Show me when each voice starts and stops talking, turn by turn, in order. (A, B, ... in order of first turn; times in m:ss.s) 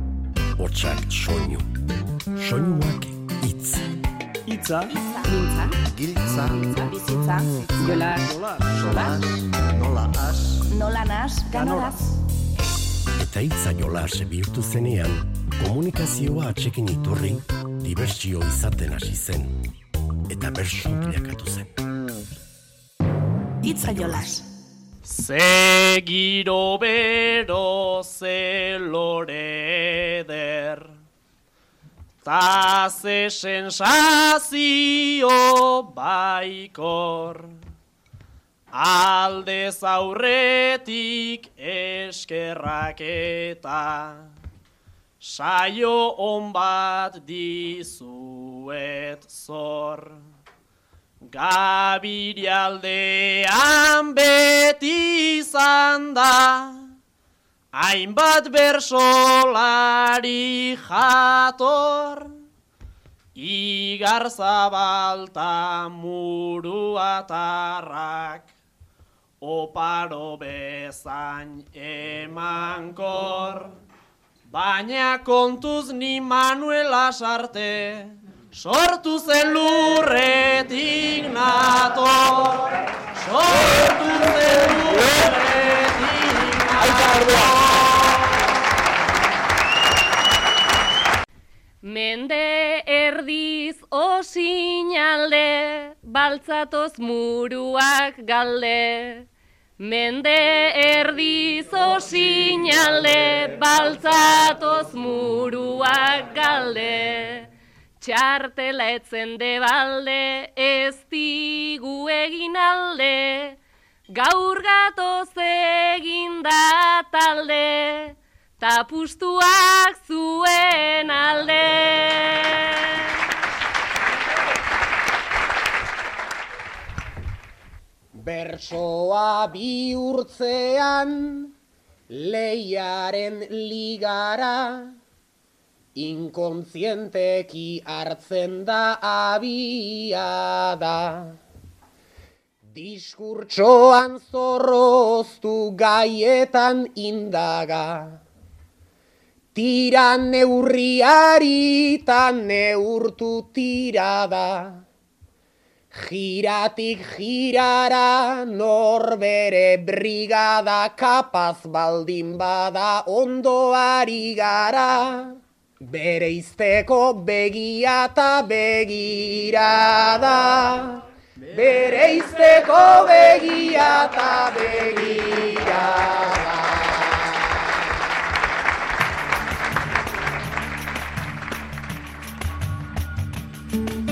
0:00.6-0:01.7 A
0:02.4-0:03.8 A
0:04.8-0:05.8 B
0:06.0-0:06.4 A
0:06.5-0:09.2 B
0:10.7-0:12.1 B
0:13.2-0:19.6 A
0:20.3-0:21.8 A
0:23.6-0:24.4 B
0:23.7-0:24.4 A
0:25.1-0:30.9 C
0:32.2-0:37.6 C
0:38.7-0:44.3 C
0:45.2-0:50.2 C
0:51.2-0:56.8 C
0:57.8-1:02.3 C
1:03.4-1:08.5 C
1:09.4-1:13.8 C
1:14.5-1:28.2 C
1:31.8-1:39.3 D
1:39.8-1:53.6 D
1:54.1-2:03.2 D
2:08.2-2:11.5 E
2:12.1-2:15.0 E
2:16.0-2:21.4 E
2:22.7-2:28.2 E
2:29.6-2:34.8 E
2:35.9-2:57.8 E